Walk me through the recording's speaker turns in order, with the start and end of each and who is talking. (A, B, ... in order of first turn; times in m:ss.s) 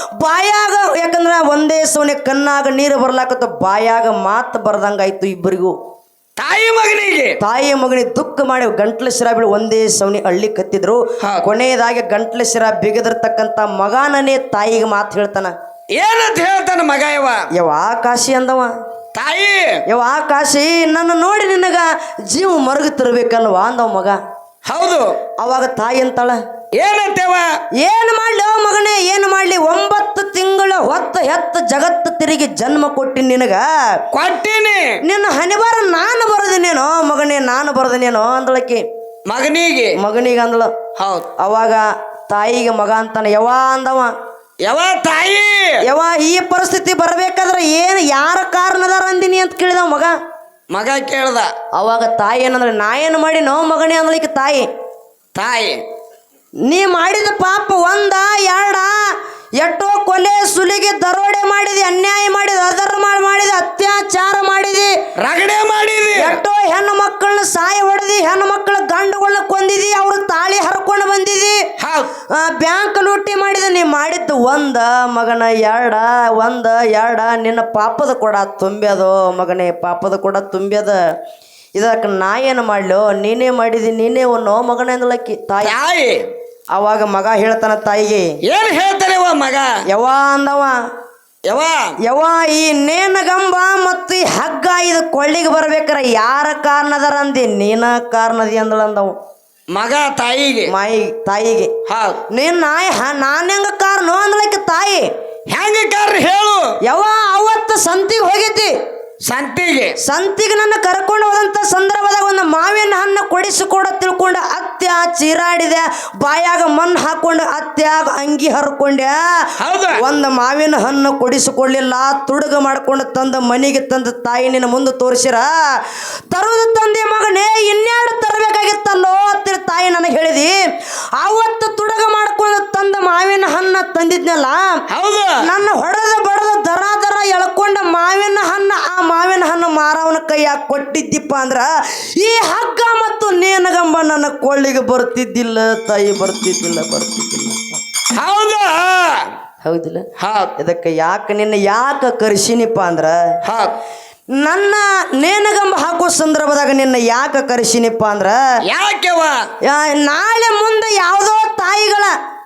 0:00.2-0:05.7 A
0:06.4-0:07.4 B
0:07.4-0:15.5 A
0:11.2-0:11.4 B
0:15.9-0:17.4 B
0:17.5-0:18.7 A
0:19.1-0:19.8 B
0:19.9-0:24.2 A
0:24.6-0:25.1 B
0:25.4-0:26.4 A
0:26.8-0:27.5 B
0:27.8-0:33.7 A
0:34.1-0:35.0 B
0:35.0-0:38.8 A
0:39.3-0:40.0 B
0:40.0-0:40.7 A
0:41.0-0:41.3 B
0:41.4-0:44.1 A
0:44.6-0:45.8 B
0:45.8-0:50.1 A
0:50.7-0:51.5 B
0:51.7-0:54.7 A
0:55.3-0:55.8 B
0:56.7-0:59.0 A
0:59.6-1:04.9 A
1:05.2-1:06.4 B
1:06.2-1:11.6 A
1:11.8-1:12.1 B
1:12.3-1:21.0 A
1:21.7-1:25.7 A
1:25.6-1:26.3 B
1:26.7-1:28.3 A
1:28.5-1:29.7 B
1:29.9-1:30.8 A
1:31.5-1:31.9 B
1:32.0-1:39.1 A
1:39.7-1:40.7 B
1:40.7-1:41.7 A
1:41.9-1:42.2 B
1:42.3-1:45.1 A
1:45.5-1:46.7 B
1:46.8-1:48.7 A
1:49.2-1:50.0 B
1:50.0-1:59.1 A
1:59.6-2:00.0 B
1:59.9-2:05.5 A
2:06.3-2:10.6 A
2:11.2-2:14.8 A
2:14.9-2:15.4 B
2:15.4-2:27.6 A
2:28.1-2:29.3 B
2:29.6-2:30.0 A
2:30.2-2:30.5 B
2:30.6-2:33.2 A
2:33.4-2:33.7 B
2:34.4-2:38.4 A
2:38.7-2:39.4 B
2:39.6-2:42.1 A